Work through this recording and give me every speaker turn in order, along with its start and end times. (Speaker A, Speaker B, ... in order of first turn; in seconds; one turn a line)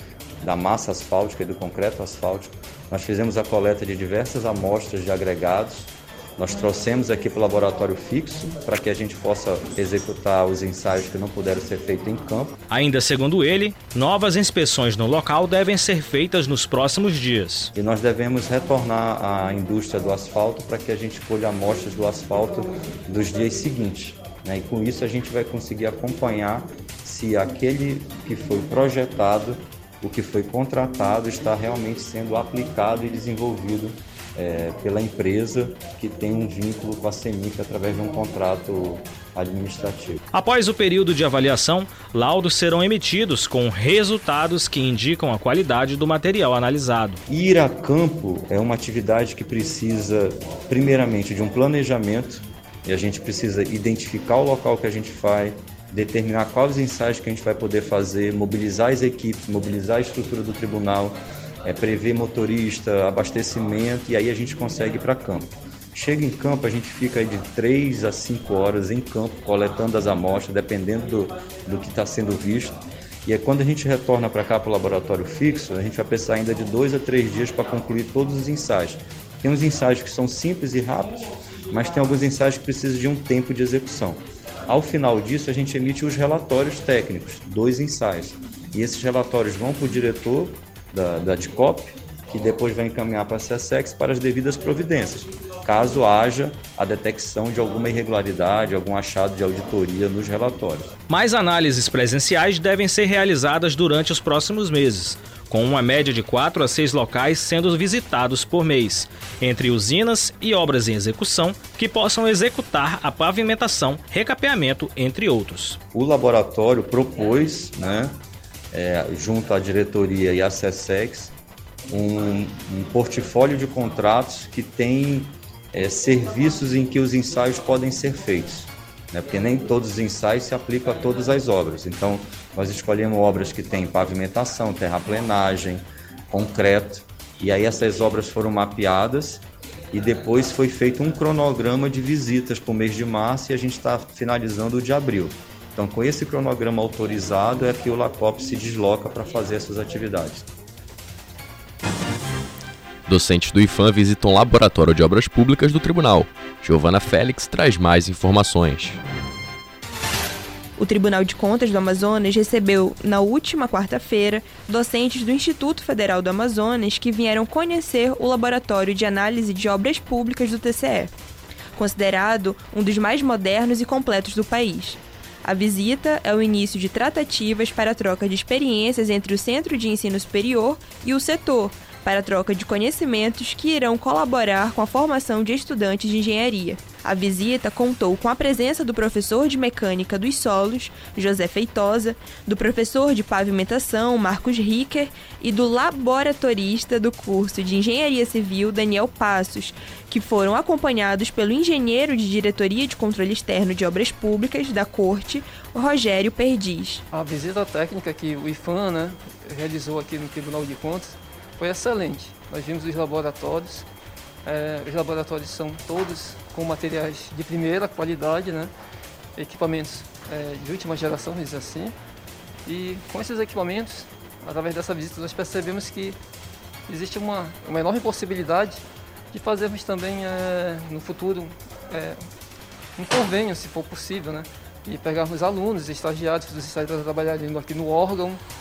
Speaker A: 0.4-12.5
Speaker B: 12.7-17.7
Speaker A: 17.7-40.2
Speaker B: 40.3-47.2
Speaker A: 47.3-100.9
Speaker B: 101.1-115.8
Speaker A: 115.9-118.2
Speaker A: 118.7-121.3
Speaker A: 121.9-150.5
Speaker C: 153.1-159.0
Speaker D: 160.8-171.1
Speaker D: 171.8-207.0
Speaker E: 207.1-213.9
Speaker E: 214.4-218.7
Speaker E: 219.3-221.9
Speaker E: 222.6-226.2
Speaker E: 226.9-232.2
Speaker E: 233.0-238.4